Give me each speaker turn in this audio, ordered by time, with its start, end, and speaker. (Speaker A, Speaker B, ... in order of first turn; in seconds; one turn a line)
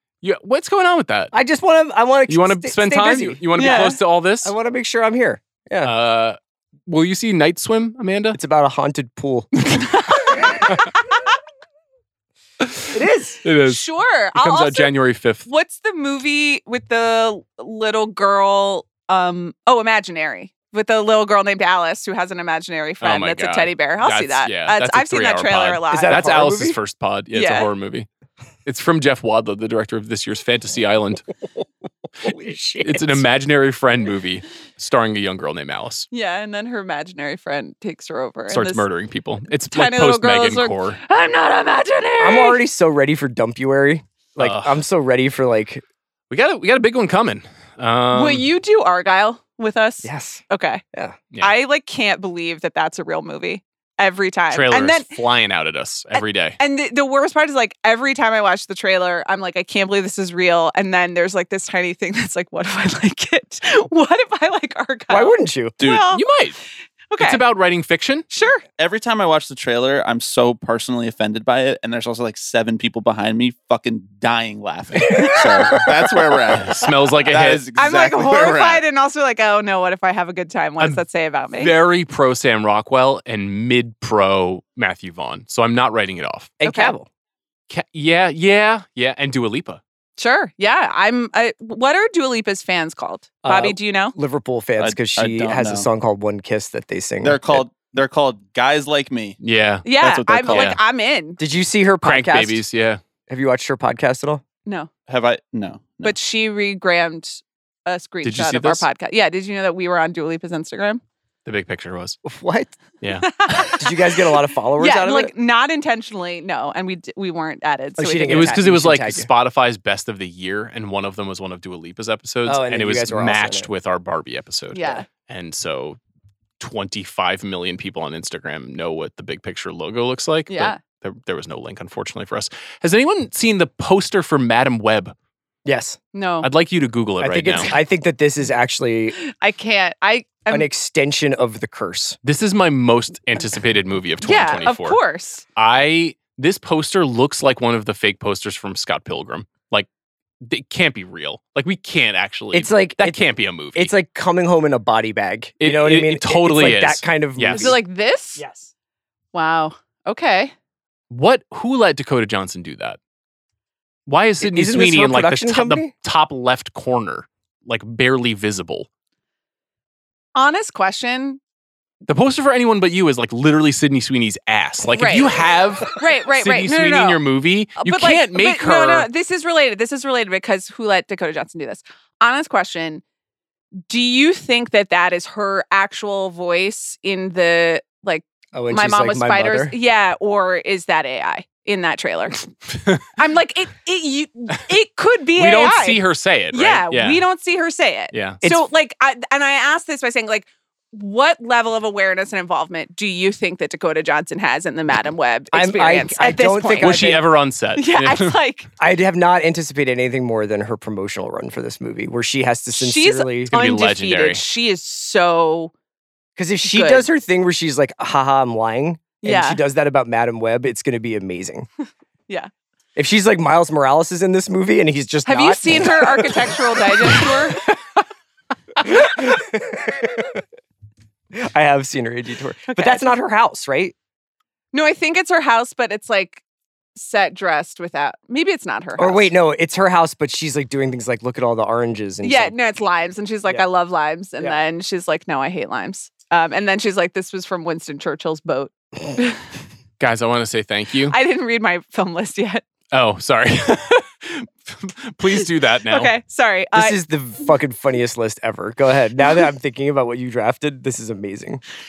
Speaker A: 0.2-1.3
Speaker B: 1.3-5.9
Speaker A: 2.3-4.5
Speaker C: 3.5-4.0
Speaker A: 5.8-8.4
Speaker B: 8.3-9.5
Speaker C: 9.8-11.0
Speaker A: 12.6-13.8
Speaker B: 12.9-13.4
Speaker C: 13.7-14.9
Speaker A: 14.3-15.5
Speaker C: 15.4-26.3
Speaker A: 23.0-28.1
Speaker B: 25.9-26.8
Speaker C: 27.3-27.7
Speaker A: 28.6-31.2
Speaker B: 32.2-33.2
Speaker A: 32.8-36.1
Speaker C: 36.1-38.8
Speaker A: 38.5-41.0
Speaker C: 39.7-42.6
Speaker B: 42.2-45.8
Speaker A: 44.4-44.8
Speaker A: 46.3-48.5
Speaker C: 48.1-50.8
Speaker B: 50.0-51.2
Speaker C: 51.4-55.1
Speaker A: 54.5-56.6
Speaker C: 56.1-66.2
Speaker B: 65.1-65.8
Speaker D: 65.8-66.1
Speaker A: 66.1-66.6
Speaker C: 67.1-67.4
Speaker A: 67.2-68.2
Speaker C: 68.3-68.6
Speaker D: 68.8-78.8
Speaker B: 75.0-76.1
Speaker A: 76.5-77.7
Speaker C: 77.7-81.7
Speaker A: 81.6-86.5
Speaker B: 86.6-87.1
Speaker C: 86.6-86.9
Speaker A: 87.7-89.8
Speaker C: 90.2-94.1
Speaker B: 93.4-97.6
Speaker D: 94.8-95.9
Speaker D: 97.2-99.4
Speaker A: 99.4-99.9
Speaker C: 99.8-101.4
Speaker D: 100.0-100.8
Speaker A: 100.5-100.8
Speaker B: 101.4-102.6
Speaker A: 102.0-103.0
Speaker B: 103.3-104.4
Speaker D: 105.1-106.1
Speaker C: 106.0-111.0
Speaker A: 108.2-108.8
Speaker A: 111.5-112.2
Speaker B: 112.2-112.8
Speaker A: 113.0-113.3
Speaker C: 113.2-114.2
Speaker B: 113.5-115.3
Speaker C: 114.8-118.6
Speaker B: 118.0-119.3
Speaker A: 118.3-126.0
Speaker B: 122.4-123.7
Speaker C: 124.7-125.0
Speaker A: 126.6-135.1
Speaker C: 130.5-130.8
Speaker B: 135.6-136.0
Speaker C: 136.1-136.5
Speaker A: 136.4-137.7
Speaker B: 137.2-139.2
Speaker C: 139.2-140.7
Speaker B: 140.5-142.2
Speaker A: 142.2-145.0
Speaker C: 144.2-145.4
Speaker A: 145.6-149.9
Speaker A: 150.4-153.9
Speaker B: 152.5-157.8
Speaker A: 155.6-157.7
Speaker C: 157.5-158.4
Speaker B: 158.3-158.7
Speaker C: 159.3-160.5
Speaker A: 161.1-163.0
Speaker A: 164.1-168.9
Speaker B: 164.4-165.9
Speaker C: 170.3-171.4
Speaker A: 172.1-179.1
Speaker C: 174.9-175.4
Speaker C: 175.9-177.2
Speaker C: 177.8-183.0
Speaker C: 183.9-192.5
Speaker B: 188.5-189.7
Speaker C: 193.1-196.0
Speaker A: 195.3-197.2
Speaker C: 196.5-207.0
Speaker A: 198.1-198.4
Speaker B: 198.4-198.7
Speaker B: 205.5-207.3
Speaker A: 206.8-208.4
Speaker C: 207.8-208.7
Speaker B: 208.8-213.5
Speaker C: 212.7-215.7
Speaker A: 213.5-214.4
Speaker B: 216.3-221.7
Speaker C: 216.6-217.1
Speaker C: 219.2-219.6
Speaker B: 222.9-227.3
Speaker C: 225.2-227.7
Speaker B: 228.8-230.4
Speaker B: 231.3-233.9
Speaker C: 232.7-233.0
Speaker C: 234.7-236.4
Speaker C: 236.9-239.3
Speaker B: 239.0-242.5
Speaker C: 242.2-249.4
Speaker B: 244.4-244.6
Speaker A: 250.0-251.2
Speaker C: 251.1-252.6
Speaker A: 252.9-256.1
Speaker C: 255.3-257.0
Speaker B: 256.7-261.6